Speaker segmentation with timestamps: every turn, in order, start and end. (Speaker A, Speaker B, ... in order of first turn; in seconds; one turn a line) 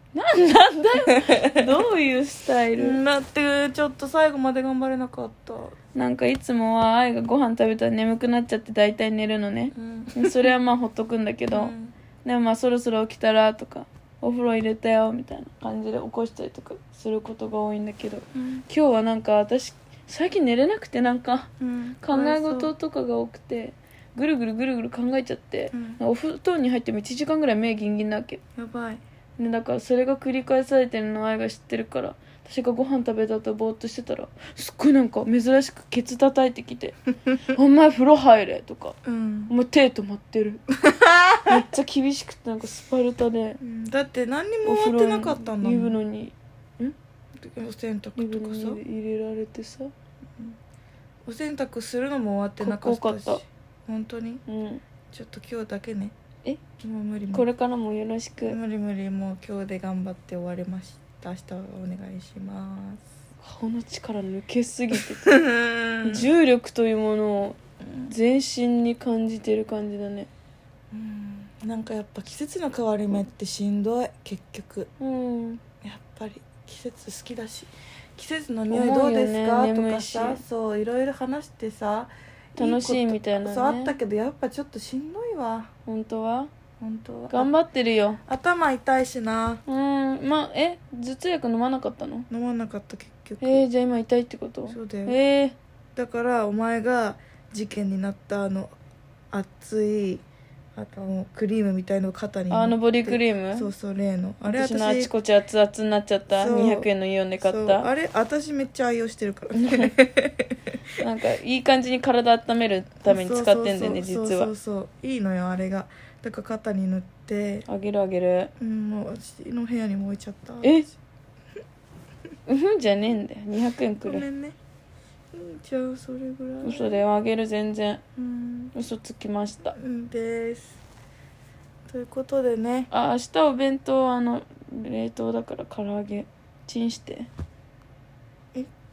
Speaker A: 0.1-3.0
Speaker B: 1.1-1.7
Speaker B: 2.8-5.8
Speaker A: 6.0-11.7
Speaker B: 9.8-10.5
Speaker B: 11.5-11.9
Speaker A: 12.2-21.5
Speaker B: 18.4-18.6
Speaker B: 21.6-22.7
Speaker A: 22.0-28.4
Speaker B: 25.7-26.0
Speaker B: 28.6-29.0
Speaker A: 29.4-37.0
Speaker A: 37.5-39.0
Speaker B: 39.0-39.5
Speaker A: 39.5-40.6
Speaker B: 40.9-41.4
Speaker A: 41.5-43.6
Speaker B: 43.6-46.0
Speaker A: 44.6-47.0
Speaker B: 47.4-48.8
Speaker A: 48.1-49.9
Speaker B: 51.2-54.4
Speaker A: 52.6-53.4
Speaker A: 54.5-54.8
Speaker B: 55.1-56.1
Speaker B: 56.8-57.5
Speaker A: 57.3-58.6
Speaker B: 58.4-63.0
Speaker A: 63.4-65.3
Speaker B: 65.2-66.3
Speaker A: 66.0-67.6
Speaker B: 67.8-68.1
Speaker A: 68.1-70.3
Speaker B: 70.9-74.9
Speaker A: 75.0-75.6
Speaker B: 75.8-85.7
Speaker A: 78.7-80.4
Speaker A: 82.6-84.0
Speaker A: 85.9-86.5
Speaker B: 86.8-87.5
Speaker A: 87.3-88.2
Speaker B: 88.3-89.6
Speaker A: 89.7-92.3
Speaker B: 92.3-93.6
Speaker A: 93.4-95.6
Speaker B: 94.7-95.2
Speaker B: 96.0-98.7
Speaker B: 99.3-100.2
Speaker B: 100.8-105.1
Speaker A: 102.5-103.7
Speaker A: 104.5-107.9
Speaker B: 106.3-106.9
Speaker B: 107.4-110.5
Speaker A: 109.5-109.9
Speaker A: 111.0-114.5
Speaker B: 113.0-117.7
Speaker A: 117.7-118.5
Speaker B: 118.6-121.0
Speaker A: 122.5-124.2
Speaker B: 124.0-124.6
Speaker B: 125.3-127.0
Speaker A: 126.6-128.0
Speaker B: 128.2-128.7
Speaker A: 128.7-129.8
Speaker B: 129.7-130.8
Speaker B: 131.9-132.9
Speaker A: 132.9-137.3